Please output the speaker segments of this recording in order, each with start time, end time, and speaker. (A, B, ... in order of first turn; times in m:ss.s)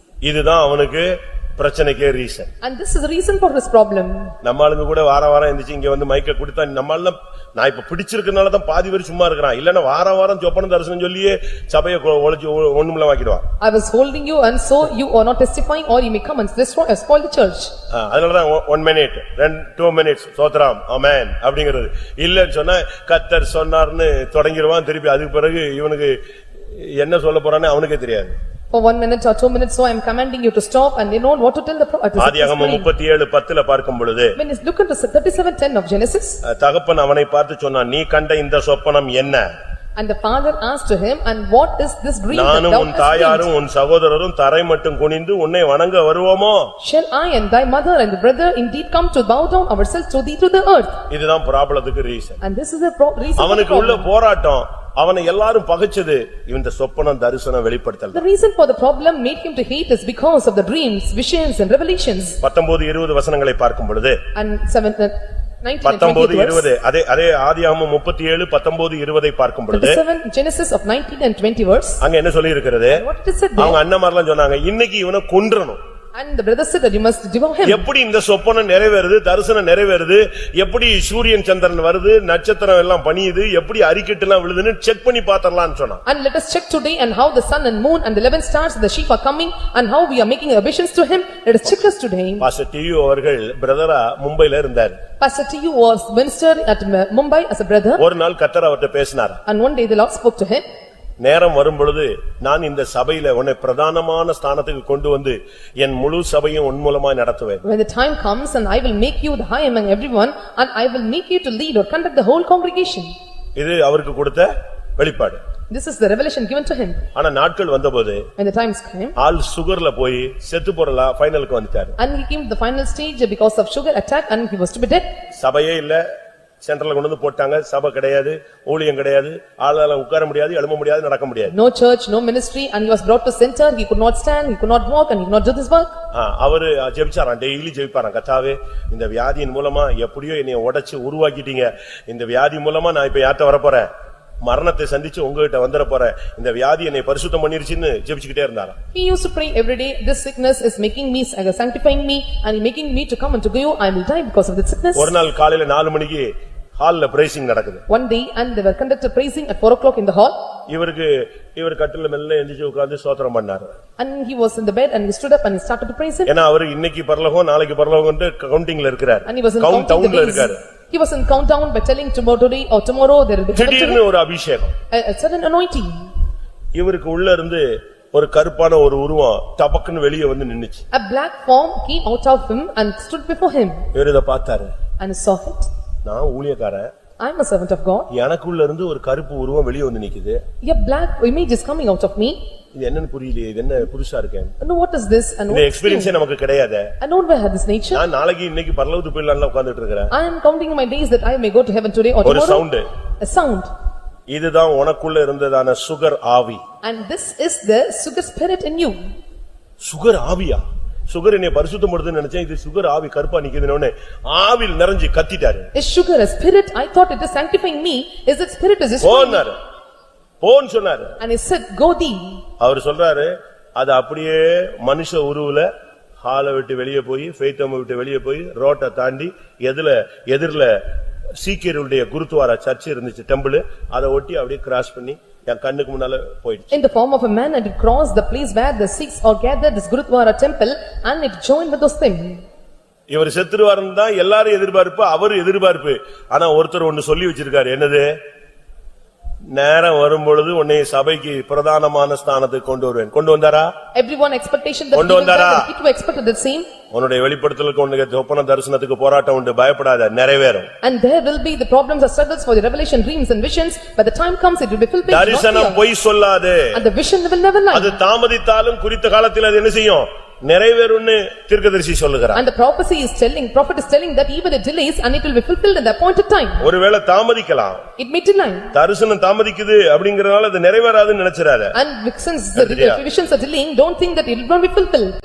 0:00.2-0:02.5 A
0:02.6-0:04.3 B
0:04.4-0:13.5 A
0:13.6-0:17.7 B
0:17.9-0:26.2 A
0:26.7-0:28.4 A
0:28.7-0:32.9 B
0:32.2-0:34.4 A
0:34.4-0:36.4 B
0:36.4-0:39.5 A
0:40.0-0:43.5 B
0:42.3-0:46.7 A
0:46.8-0:51.0 B
0:51.1-0:52.4 A
0:52.4-0:54.1 B
0:53.4-0:58.2 A
0:58.1-1:02.4 B
1:02.4-1:04.2 A
1:04.4-1:06.7 B
1:05.8-1:10.0 A
1:09.7-1:12.0 B
1:12.0-1:13.0 A
1:12.9-1:13.8 B
1:13.6-1:15.8 A
1:16.2-1:17.8 B
1:17.6-1:26.0 A
1:26.1-1:32.5 B
1:32.4-1:35.0 A
1:35.2-1:38.0 B
1:38.0-1:39.4 A
1:39.5-1:40.6 B
1:41.2-1:47.6 A
1:47.6-1:53.1 B
1:53.6-1:55.4 A
1:55.7-1:57.0 B
1:57.2-1:58.3 A
1:58.4-1:59.2 B
1:59.2-2:02.0 A
2:02.0-2:05.1 B
2:05.4-2:06.0 A
2:06.6-2:11.5 A
2:11.5-2:16.0 B
2:16.1-2:23.9 A
2:24.4-2:28.8 A
2:28.9-2:35.1 B
2:35.0-2:37.8 A
2:37.9-2:40.4 B
2:40.7-2:43.7 A
2:44.0-2:46.3 B
2:46.3-2:50.6 A
2:49.3-2:54.0 B
2:53.5-2:54.8 A
2:54.9-2:56.1 B
2:56.8-3:00.8 A
3:00.9-3:03.8 B
3:03.9-3:04.7 A
3:05.0-3:05.7 B
3:06.0-3:06.9 A
3:07.2-3:08.1 B
3:08.1-3:10.4 A
3:10.6-3:12.4 B
3:12.8-3:14.5 A
3:14.6-3:16.1 B
3:15.5-3:16.9 A
3:17.0-3:18.0 B
3:17.9-3:20.1 A
3:20.1-3:22.6 B
3:22.2-3:22.9 A
3:23.2-3:23.7 B
3:24.3-3:26.6 A
3:26.8-3:29.0 B
3:29.8-3:35.7 A
3:35.8-3:39.4 B
3:39.0-3:39.6 A
3:40.4-3:41.2 A
3:41.2-3:42.4 B
3:42.6-3:45.7 A
3:46.2-3:50.8 A
3:51.4-3:56.7 A
3:56.7-4:02.4 B
4:03.1-4:08.1 A
4:09.5-4:13.7 A
4:13.9-4:16.7 B
4:14.9-4:15.7 A
4:16.9-4:20.7 A
4:20.8-4:25.8 B
4:25.1-4:26.8 A
4:26.7-4:28.0 B
4:27.7-4:32.4 A
4:32.3-4:36.7 B
4:36.6-4:37.8 A
4:38.0-4:38.7 B
4:38.7-4:41.7 A
4:41.7-4:45.1 B
4:42.6-4:43.0 A